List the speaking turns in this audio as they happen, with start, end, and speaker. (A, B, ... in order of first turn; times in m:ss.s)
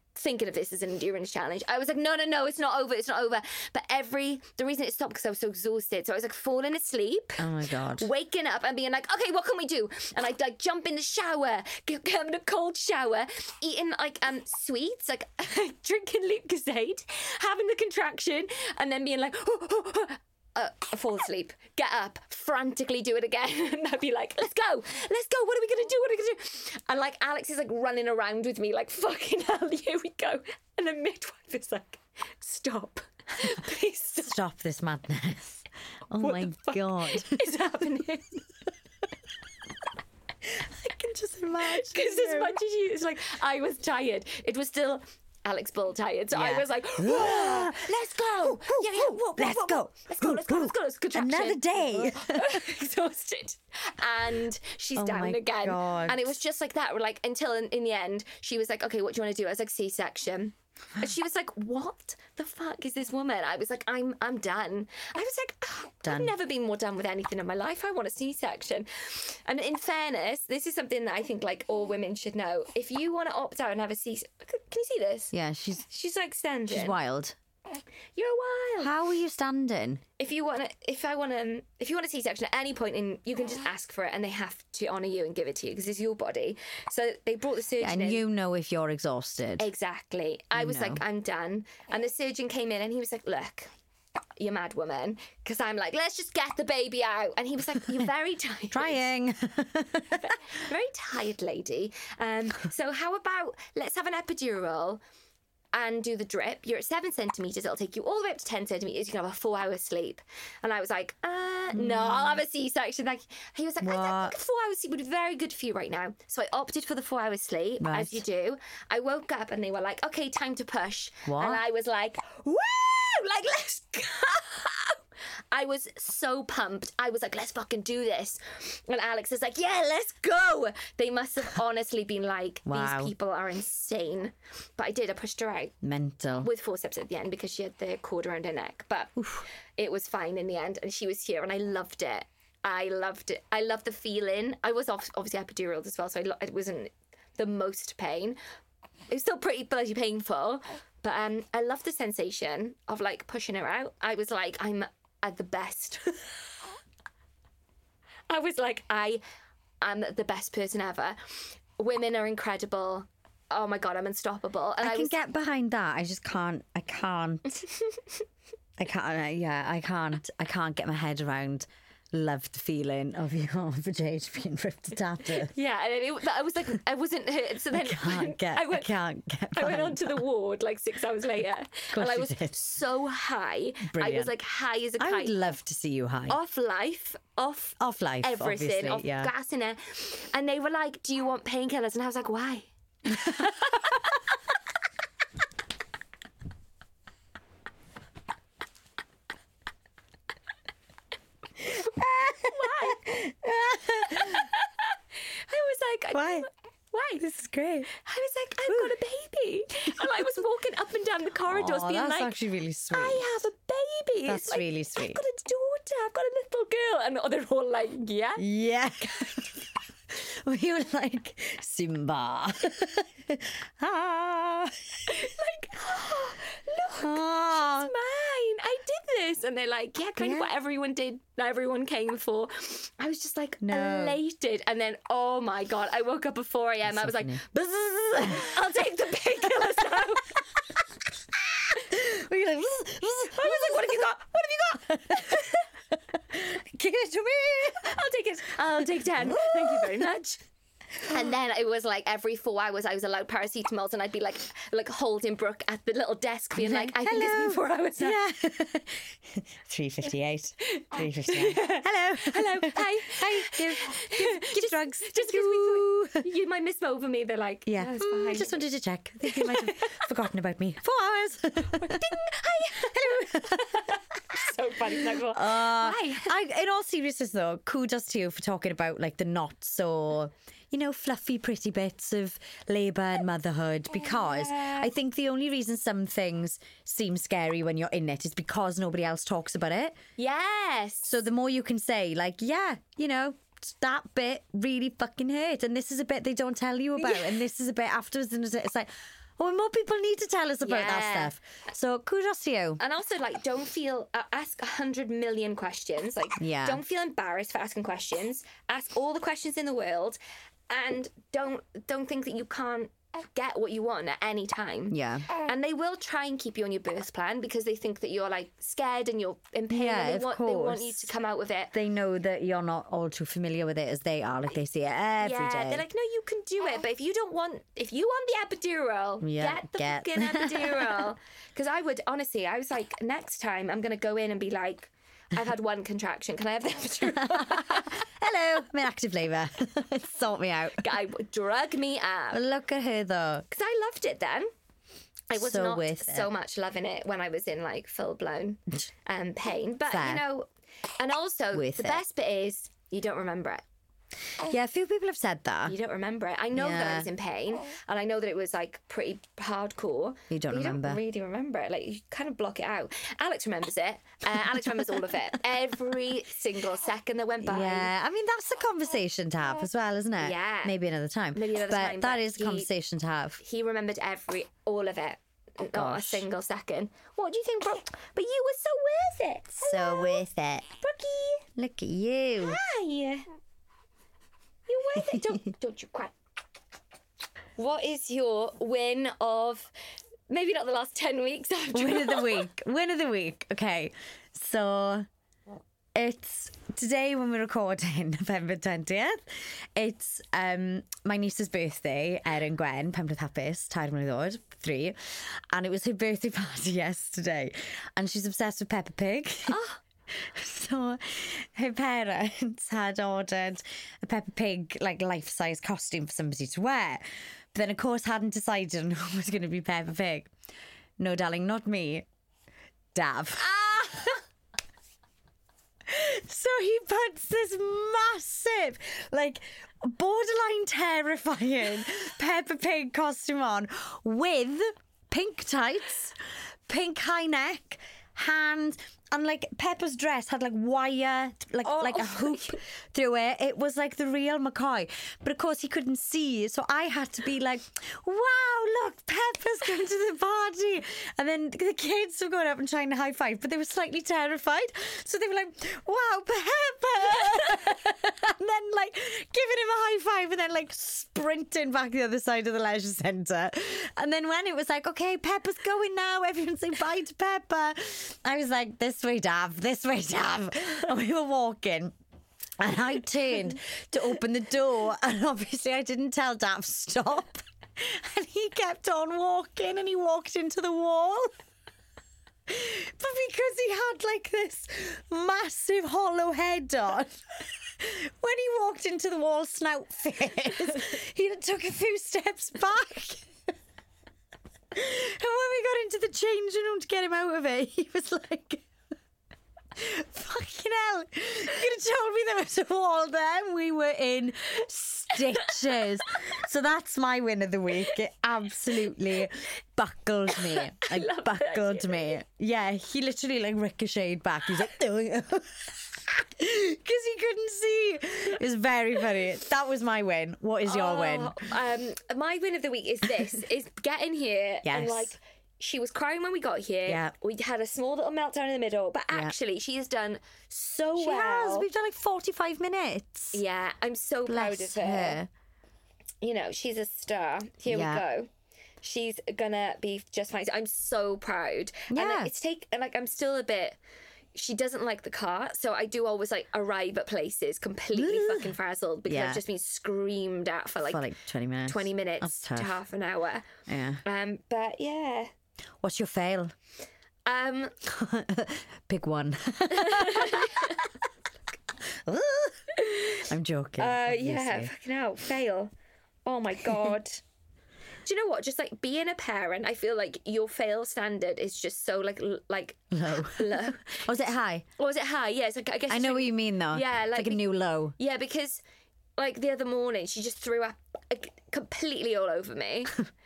0:00.1-0:34.4 A
0:07.4-0:08.1 B
0:34.2-0:37.4 B
0:36.2-0:38.4 A
0:40.4-0:42.6 B
0:41.6-1:15.3 A
0:46.3-0:52.6 B
0:55.0-0:56.4 B
1:06.0-1:06.3 B
1:15.3-1:15.9 B
1:15.9-1:17.0 A
1:16.7-1:17.4 B
1:18.2-1:18.9 A
1:18.8-1:20.0 B
1:20.2-1:28.2 A
1:27.8-1:29.6 B
1:29.6-1:33.7 A
1:30.5-1:31.0 B
1:34.4-1:39.1 A
1:38.7-1:40.4 B
1:40.2-1:45.0 A
1:45.7-2:05.0 A
1:51.8-1:52.4 B
1:53.8-1:54.3 B
1:57.8-1:58.2 B
2:01.2-2:01.6 B
2:05.5-2:15.7 A
2:12.6-2:13.1 B
2:15.8-2:16.5 B
2:16.4-2:19.2 A
2:19.8-2:28.4 A
2:29.1-2:36.4 A
2:38.3-2:39.2 A
2:39.8-2:45.2 A
2:44.8-2:47.6 B
2:48.8-2:55.5 B
2:55.3-2:58.9 A
2:57.7-3:00.2 B
2:59.5-3:05.4 A
3:01.9-3:02.5 B
3:03.9-3:04.3 B
3:05.0-3:06.4 B
3:06.3-3:14.2 A
3:07.8-3:09.3 B
3:21.6-3:24.5 B
3:22.5-3:23.1 A
3:24.1-3:24.8 A
3:25.5-3:27.2 A
3:26.1-3:26.4 B
3:27.2-3:27.9 B
3:27.9-3:32.4 A
3:28.7-3:28.9 B
3:30.0-3:30.2 B
3:31.5-3:33.2 B
3:32.9-3:38.4 A
3:34.2-3:35.2 B
3:38.4-3:44.8 B
3:39.0-3:39.3 A
3:45.1-3:57.4 A
3:47.0-3:47.9 B
3:50.2-3:50.5 B
3:53.6-3:54.2 B
3:56.8-3:58.6 B
3:58.2-4:00.6 A
4:01.3-4:08.0 B
4:03.3-4:05.6 A
4:07.8-4:10.4 A
4:09.2-4:10.1 B
4:11.0-4:18.2 A
4:16.6-4:26.2 B
4:20.6-4:28.6 A
4:27.6-4:33.9 B
4:29.2-4:30.1 A
4:31.7-4:36.4 A
4:35.0-4:50.0 B
4:44.0-4:44.9 A
4:50.2-4:51.2 A
4:51.0-5:02.8 B
4:57.0-4:57.3 A
5:00.6-5:01.3 A
5:02.8-5:10.2 A
5:06.4-5:06.8 B
5:10.7-5:21.7 A
5:14.9-5:15.3 B
5:19.7-5:21.1 B
5:21.7-5:25.8 B
5:25.2-5:38.0 A
5:29.2-5:31.1 B
5:37.1-5:40.9 B
5:40.8-5:42.4 A
5:42.3-5:43.5 B
5:43.5-5:44.5 A
5:45.3-5:50.5 A
5:45.3-5:46.3 B
5:49.9-5:50.2 B
5:51.0-5:53.6 A
5:51.5-5:52.0 B
5:54.4-5:55.8 B
5:55.6-6:07.9 A
5:56.5-5:57.1 B
6:00.3-6:01.0 B
6:07.4-6:13.4 B
6:10.2-6:10.8 A
6:11.3-6:12.7 A
6:13.4-6:20.2 A
6:15.7-6:16.2 B
6:19.6-6:20.7 B
6:20.8-6:21.4 A
6:21.6-6:22.6 B
6:22.4-6:23.2 A
6:24.7-6:26.1 A
6:27.6-6:29.7 A
6:30.3-6:32.5 A
6:31.7-6:35.0 B
6:35.9-6:57.0 B
6:49.5-6:49.8 A
6:57.5-7:00.3 B
7:01.0-7:02.0 B
7:02.9-7:04.2 B
7:03.5-7:04.1 A
7:05.8-7:16.2 B
7:16.7-7:51.9 B
7:21.6-7:22.6 A
7:52.6-8:01.3 B
8:02.5-8:13.3 B
8:14.7-8:18.7 B
8:19.7-8:41.4 B
8:30.3-8:32.2 A
8:40.6-8:51.7 A
8:44.6-8:45.1 B
8:46.9-8:47.1 B
8:51.0-8:53.4 B
8:53.3-8:55.2 A
8:54.3-8:55.3 B
8:56.2-8:58.3 A
8:57.7-8:58.0 B
8:58.8-9:03.8 A
9:01.9-9:02.3 B
9:04.3-9:11.0 A
9:07.9-9:08.5 B
9:09.1-9:09.4 B
9:10.8-9:12.7 B
9:11.6-9:13.5 A
9:13.7-9:14.0 B
9:14.0-9:15.3 A
9:15.8-9:16.5 B
9:17.2-9:17.8 A
9:17.8-9:20.9 B
9:19.7-9:20.8 A
9:21.9-9:24.7 B
9:22.7-9:23.2 A
9:23.8-9:25.7 A
9:26.2-9:27.2 A
9:28.0-9:34.1 A
9:32.9-9:34.6 B
9:34.8-9:37.4 A
9:35.9-9:38.0 B
9:38.0-9:38.6 A
9:39.2-9:43.0 A